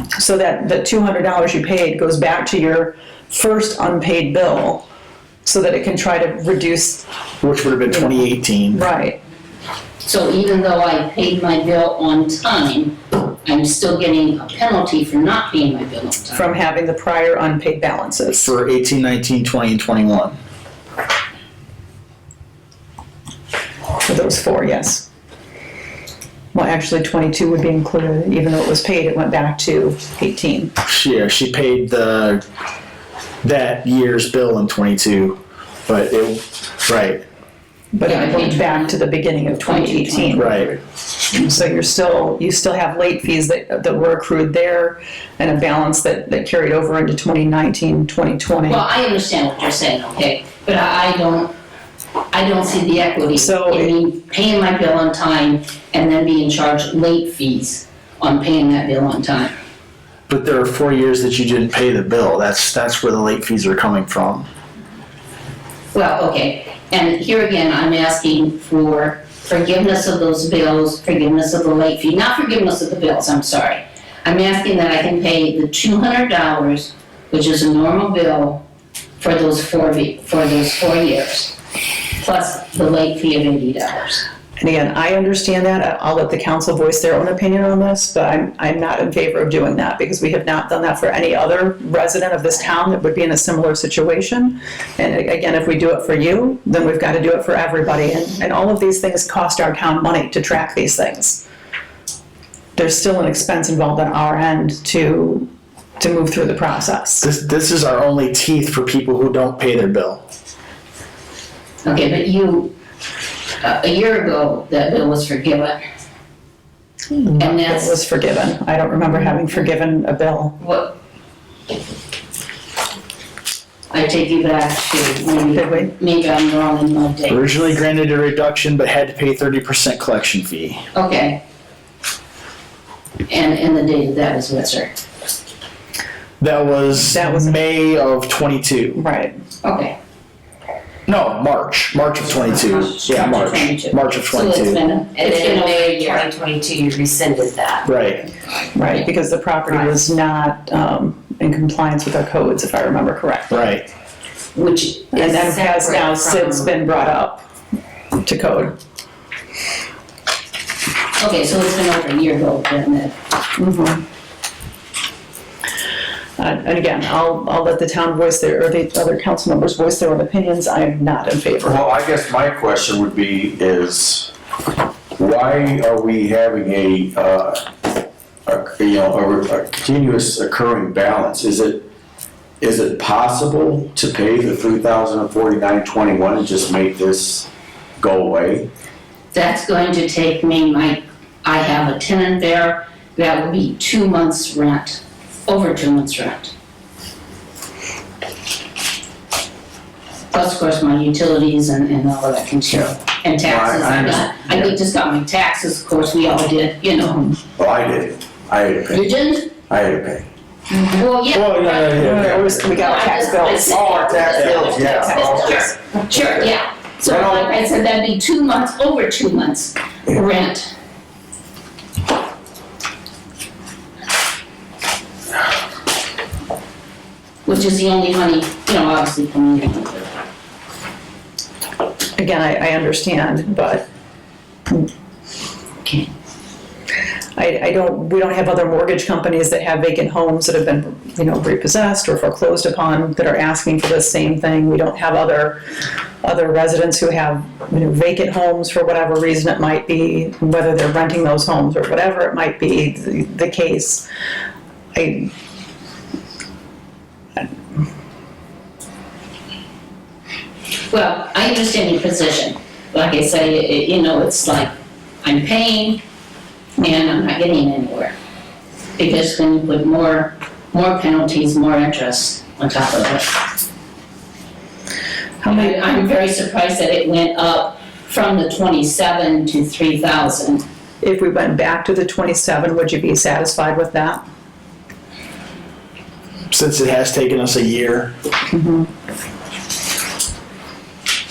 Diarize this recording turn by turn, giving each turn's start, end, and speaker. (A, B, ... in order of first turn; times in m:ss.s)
0:00.2-0:04.8 A
0:05.4-0:07.0 A
0:07.4-0:08.8 B
0:08.7-0:09.2 A
0:10.0-0:16.5 C
0:16.3-0:18.5 A
0:18.4-0:20.4 B
0:24.0-0:25.1 A
0:26.5-0:30.7 A
0:30.8-0:32.4 B
0:33.4-0:37.2 B
0:37.9-0:40.7 A
0:38.0-0:40.7 C
0:40.4-0:40.7 B
0:41.3-0:48.8 A
0:48.7-0:51.5 C
0:52.3-0:59.6 C
0:53.3-0:53.9 A
1:00.3-1:04.5 B
1:05.9-1:18.6 C
1:19.2-1:24.2 C
1:24.6-1:41.4 A
1:42.8-1:45.5 A
1:46.0-1:47.3 A
1:47.2-1:50.2 B
1:51.8-1:52.7 C
1:53.6-1:55.8 C
1:57.2-2:00.5 A
1:57.4-1:58.0 C
2:03.9-2:07.8 C
2:05.5-2:05.9 A
2:07.3-2:10.8 B
2:10.9-2:11.4 C
2:13.3-2:15.0 C
2:16.4-2:19.0 B
2:17.0-2:17.6 A
2:18.9-2:19.4 A
2:19.6-2:20.0 C
2:21.1-2:24.8 B
2:22.6-2:26.3 C
2:25.1-2:27.9 D
2:27.8-2:28.2 B
2:28.7-2:33.7 A
2:33.5-2:33.8 B
2:34.5-2:36.7 D
2:35.1-2:37.4 A
2:38.2-2:38.8 A
2:41.2-2:43.1 C
2:43.6-2:44.0 A
2:46.4-2:51.8 A
2:51.6-2:54.3 E
2:55.2-2:57.7 E
2:58.4-3:01.9 E
3:02.6-3:08.7 E
3:09.3-3:16.5 C
3:20.3-3:27.3 C
3:23.4-3:24.7 E
3:27.6-3:29.1 E
3:28.9-3:29.5 C
3:29.7-3:30.2 E
3:30.9-3:40.7 C
3:31.3-3:32.4 B
3:31.9-3:34.0 A
3:32.1-3:32.6 E
3:33.8-3:35.7 E
3:34.2-3:34.9 B
3:34.8-3:35.6 A
3:37.0-3:37.4 E
3:47.4-3:50.1 C
3:52.2-3:53.8 A
3:55.8-3:56.1 C
3:57.4-4:05.6 A
4:06.2-4:14.0 A
4:14.9-4:15.3 A
4:20.9-4:26.0 C
4:26.8-4:28.1 C
4:29.0-4:33.4 C
4:35.4-4:35.7 A
4:35.4-4:40.6 C
4:41.0-4:44.2 A
4:46.5-4:48.1 B
4:48.5-4:48.9 A